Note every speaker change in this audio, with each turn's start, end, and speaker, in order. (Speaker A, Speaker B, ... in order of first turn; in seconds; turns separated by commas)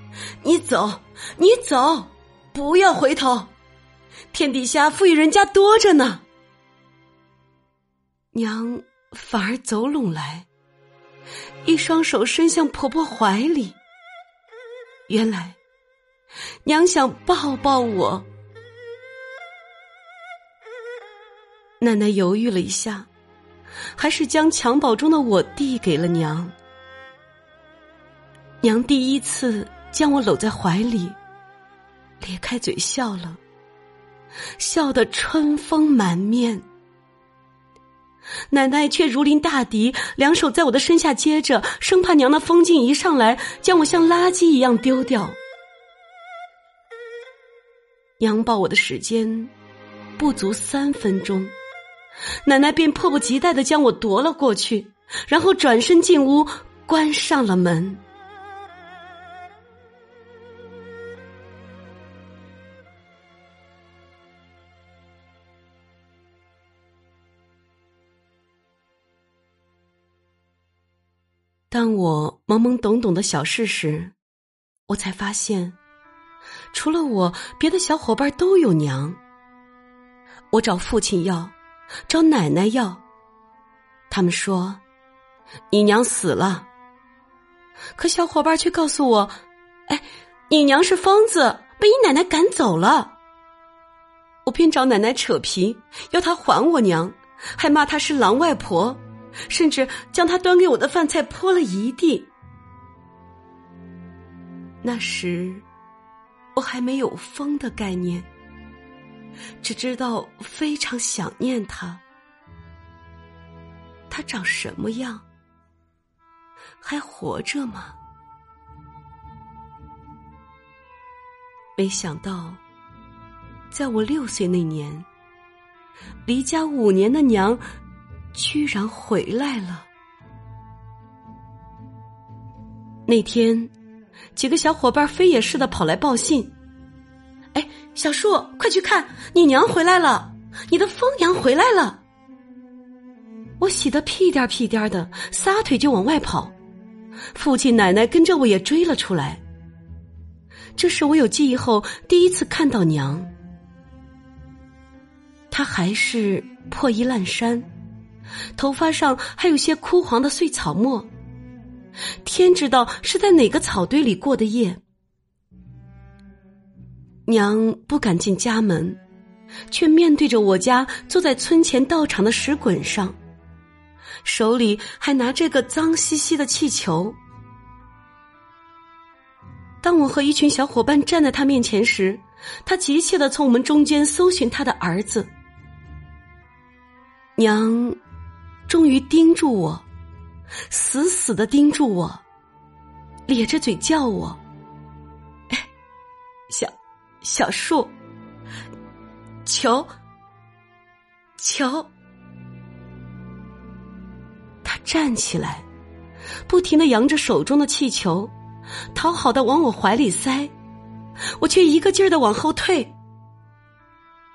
Speaker A: 0.4-3.5, Speaker A: 4.3-6.2, Speaker A: 8.3-10.5, Speaker A: 11.7-13.8, Speaker A: 15.1-15.6, Speaker A: 16.6-18.3, Speaker A: 21.8-23.1, Speaker A: 24.0-26.6, Speaker A: 28.6-31.2, Speaker A: 32.2-33.4, Speaker A: 34.6-36.7, Speaker A: 38.5-45.4, Speaker A: 48.2-49.5, Speaker A: 50.2-51.5, Speaker A: 52.5-58.0, Speaker A: 71.7-74.1, Speaker A: 74.9-75.8, Speaker A: 76.7-79.2, Speaker A: 80.5-81.5, Speaker A: 82.1-83.0, Speaker A: 84.1-84.8, Speaker A: 85.7-86.7, Speaker A: 88.0-89.4, Speaker A: 89.9-93.2, Speaker A: 94.5-102.3, Speaker A: 104.8-105.7, Speaker A: 106.5-108.3, Speaker A: 109.6-112.0, Speaker A: 114.1-115.2, Speaker A: 116.8-118.0, Speaker A: 121.8-122.6, Speaker A: 123.7-125.1, Speaker A: 126.3-127.6, Speaker A: 128.3-129.9, Speaker A: 133.1-133.7, Speaker A: 134.4-136.6, Speaker A: 137.5-142.0, Speaker A: 143.6-146.6, Speaker A: 147.3-149.4, Speaker A: 150.8-153.3, Speaker A: 155.5-157.7, Speaker A: 158.6-161.1, Speaker A: 162.2-164.8, Speaker A: 167.3-169.0, Speaker A: 169.7-173.2, Speaker A: 174.2-177.2, Speaker A: 179.8-185.3, Speaker A: 187.4-188.0, Speaker A: 188.7-189.9, Speaker A: 190.7-192.2, Speaker A: 193.3-194.4, Speaker A: 196.5-197.9, Speaker A: 199.4-199.9, Speaker A: 201.4-201.9, Speaker A: 204.6-205.7, Speaker A: 206.5-208.3, Speaker A: 208.9-210.5, Speaker A: 211.4-212.9